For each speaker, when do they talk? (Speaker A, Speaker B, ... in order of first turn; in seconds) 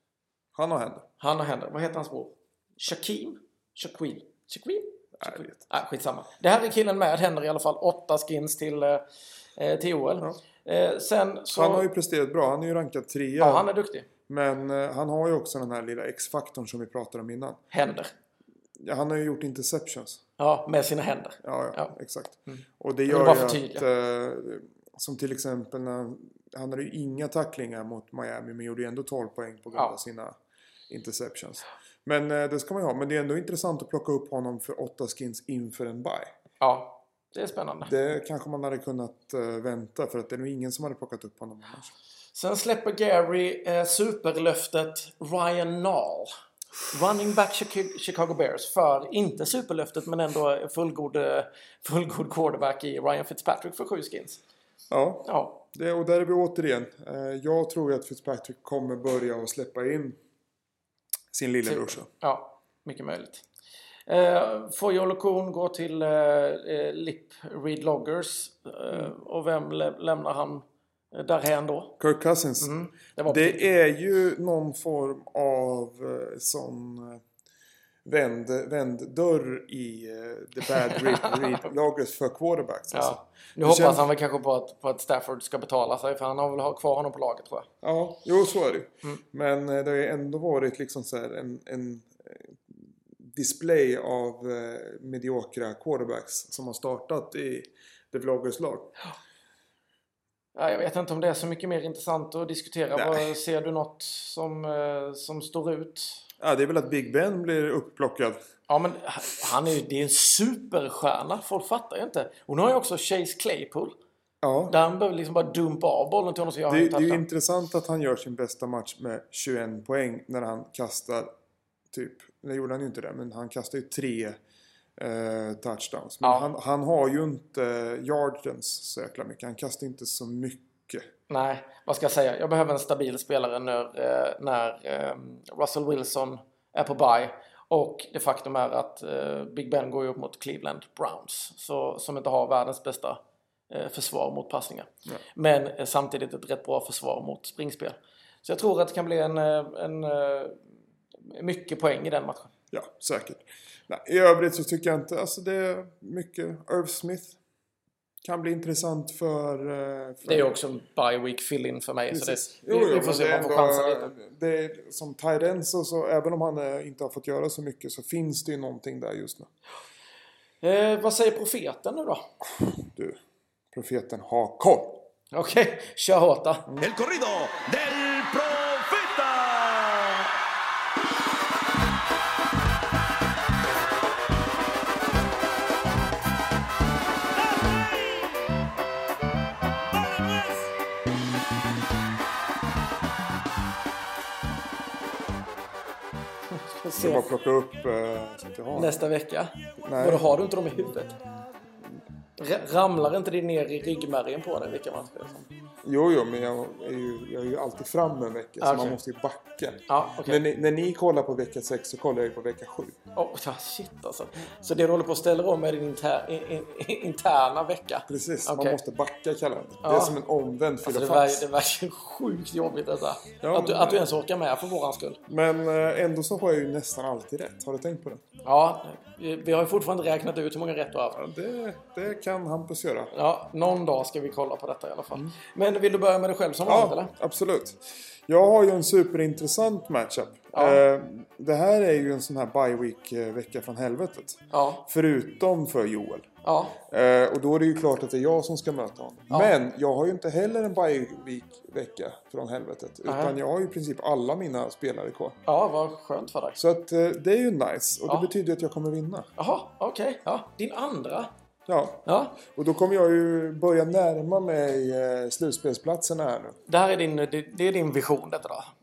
Speaker A: 0.5-1.1, 5.2-5.7, 11.5-13.7, 14.3-17.6, 18.8-20.2, 21.4-30.4, 30.9-36.3, 37.8-41.9, 54.9-60.2, 61.3-62.1, 72.0-72.7, 73.2-77.2, 78.0-84.0, 87.8-98.9, 103.0-103.3, 106.4-108.4, 114.4-114.7, 116.7-121.3, 121.9-124.4, 125.0-131.1, 152.7-157.4, 158.2-160.5, 162.1-169.5, 172.5-173.2, 173.7-175.1, 197.0-198.9, 199.8-200.3, 205.8-212.9, 218.1-221.4, 223.4-224.0, 225.3-228.2, 231.1-233.1, 236.6-246.3, 246.8-255.3, 256.6-259.3, 261.7-266.6
Speaker B: 1.2-9.0, 9.6-11.9, 13.4-14.1, 17.7-18.1, 20.4-21.9, 22.5-23.9, 36.6-37.9, 42.3-46.3, 46.9-54.4, 55.2-55.6, 61.6-63.4, 64.1-72.0, 72.6-73.6, 82.9-87.7, 100.5-106.2, 108.7-113.9, 114.7-117.2, 126.2-126.5, 131.3-143.2, 143.7-150.6, 151.3-152.5, 160.2-164.1, 170.6-172.3, 175.3-176.7, 196.7-197.3, 198.7-201.2, 202.4-205.4, 208.6-209.0, 209.9-210.4, 213.1-218.8, 219.8-220.2, 220.8-225.2, 228.4-231.2, 233.1-237.1, 240.5-240.8, 244.5-244.8, 246.4-246.8, 253.1-253.3, 255.4-256.6, 259.4-261.3, 262.1-262.4, 266.7-268.7
Speaker C: 176.8-180.2